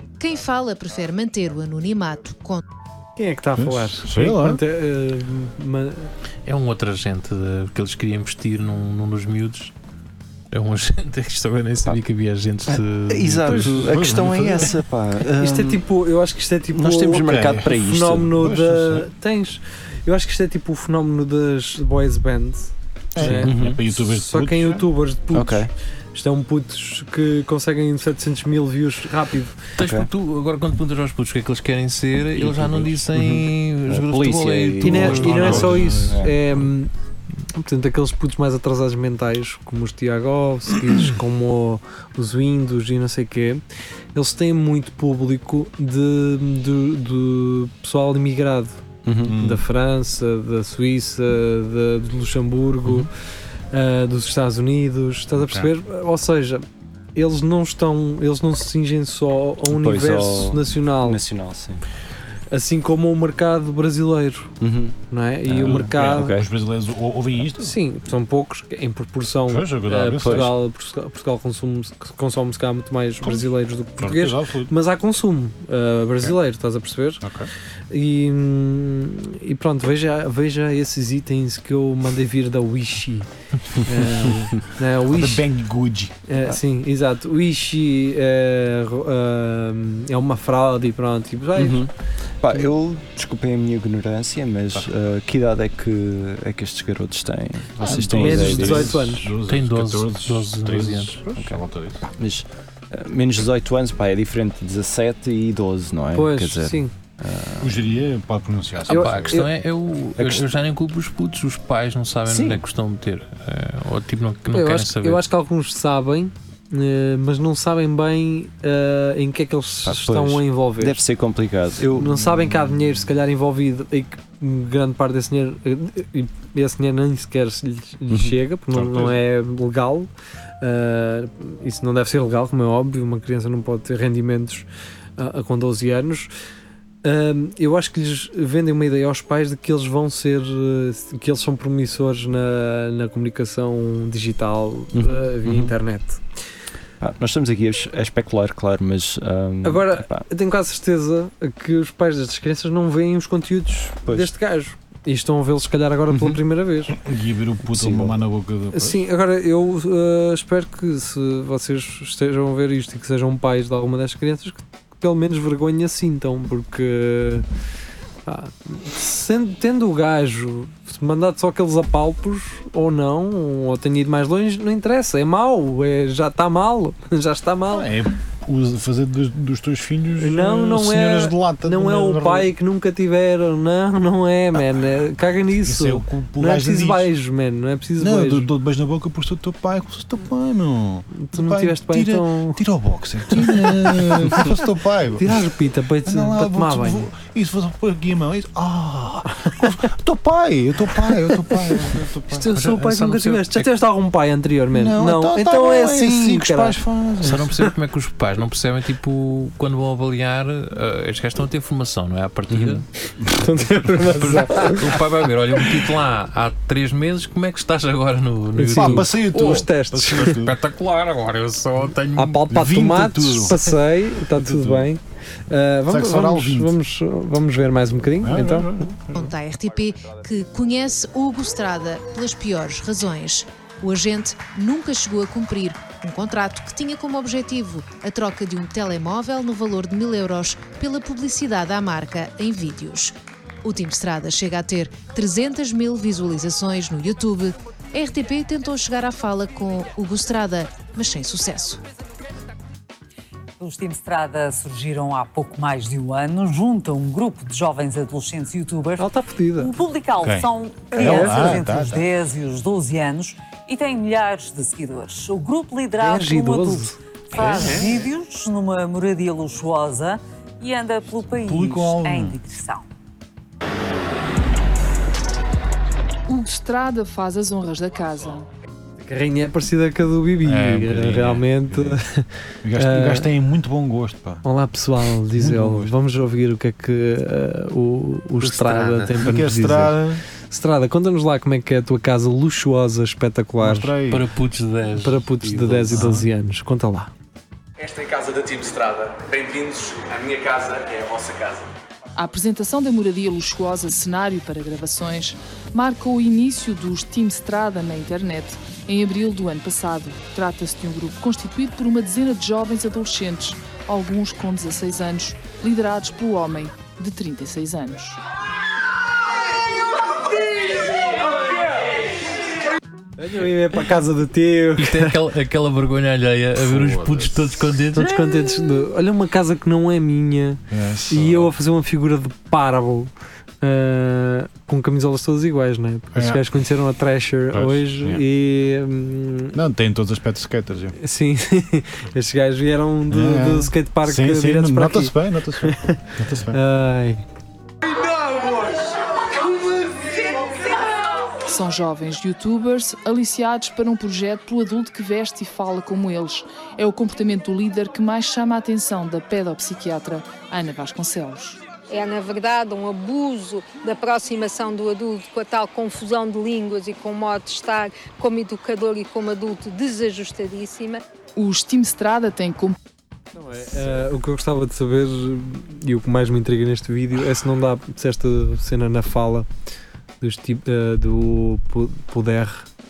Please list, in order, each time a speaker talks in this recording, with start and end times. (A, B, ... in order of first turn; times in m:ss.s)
0:00.2-0:02.6 A
0:03.2-0:06.1 B
0:03.6-0:04.6 C
0:06.5-0:09.7 D
0:10.5-0:13.8 D
0:12.7-0:15.8 E
0:13.5-0:14.7 C
0:15.4-0:29.6 B
0:16.7-0:18.2 E
0:17.2-0:19.1 C
0:23.2-0:24.9 C
0:23.2-0:23.8 E
0:25.3-0:25.7 E
0:29.8-0:36.0 D
0:29.8-0:30.1 E
0:32.4-0:36.3 E
0:34.8-0:36.9 B
0:34.9-0:36.3 C
0:37.5-0:43.6 B
0:44.1-0:53.1 B
0:49.0-0:49.4 E
0:49.2-0:49.6 C
0:53.7-0:56.6 B
0:55.3-0:55.7 C
0:57.2-1:01.2 B
0:59.7-1:01.8 E
1:02.5-1:04.5 B
1:04.6-1:05.0 E
1:05.1-1:06.4 B
1:05.5-1:06.5 E
1:05.6-1:07.8 C
1:07.6-1:17.2 B
1:09.5-1:10.5 C
1:10.2-1:10.5 E
1:14.0-1:14.7 C
1:17.2-1:17.5 C
1:17.9-1:25.5 B
1:25.0-1:26.2 C
1:26.3-1:31.8 B
1:31.6-1:31.9 E
1:32.4-1:39.0 E
1:37.8-1:42.1 C
1:37.9-1:39.3 B
1:39.5-1:41.2 D
1:42.2-1:47.7 E
1:46.1-1:46.9 B
1:47.6-1:49.4 C
1:48.9-1:49.5 B
1:48.9-1:55.2 D
1:50.2-1:50.4 E
1:52.3-1:52.6 E
1:54.5-2:01.0 B
1:59.8-2:02.2 E
2:01.8-2:10.1 B
2:08.1-2:08.4 E
2:08.7-2:09.2 C
2:10.6-2:14.7 B
2:15.2-2:16.3 B
2:17.0-2:26.2 B
2:24.9-2:25.8 E
2:27.0-2:30.3 E
2:29.6-2:37.0 B
2:36.1-2:36.4 E
2:36.9-2:39.0 C
2:37.8-2:38.1 E
2:38.7-2:47.4 B
2:48.3-2:57.9 B
2:57.7-3:02.5 C
3:00.2-3:08.5 B
3:05.6-3:07.1 C
3:08.0-3:15.5 C
3:11.2-3:12.6 B
3:13.3-3:14.5 B
3:15.2-3:17.1 B
3:16.0-3:22.5 C
3:21.3-3:21.8 B
3:22.3-3:26.8 B
3:22.5-3:23.7 D
3:24.7-3:27.7 C
3:27.2-3:32.9 D
3:32.5-3:32.8 E
3:33.2-3:35.0 B
3:33.9-3:39.1 D
3:38.6-3:40.4 B
3:38.7-3:40.6 C
3:40.2-3:42.4 D
3:42.2-3:48.9 B
3:42.5-3:44.9 C
3:45.9-3:46.8 C
3:48.2-3:49.3 C
3:49.1-4:11.8 A
4:13.6-4:32.8 F
4:19.0-4:19.7 B
4:20.2-4:22.1 C
4:20.9-4:21.7 B
4:26.0-4:27.0 B
4:27.4-4:28.0 C
4:31.3-4:32.4 C
4:36.3-4:38.5 G
4:39.0-4:43.3 B
4:40.4-4:42.0 C
4:42.6-4:44.4 C
4:44.4-4:50.0 B
4:45.0-4:45.9 C
4:48.4-4:49.1 D
4:49.2-4:50.2 C
4:50.5-4:53.9 B
4:53.6-4:54.3 C
4:54.1-4:56.1 D
4:55.0-4:57.1 B
4:55.9-4:56.2 C
4:57.8-5:01.6 H
5:02.2-5:18.2 G
5:23.2-5:25.2 B
5:24.8-5:28.1 D
5:26.6-5:27.6 C
5:28.0-5:33.1 B
5:30.7-5:31.5 C
5:33.6-5:39.6 B
5:36.1-5:36.4 C
5:37.5-5:38.2 C
5:39.5-5:41.0 C
5:41.0-5:47.2 B
5:43.1-5:46.6 C
5:51.5-6:01.6 G
6:01.9-6:11.0 I
6:11.4-6:12.8 G
6:13.4-6:19.5 B
6:20.2-6:22.7 B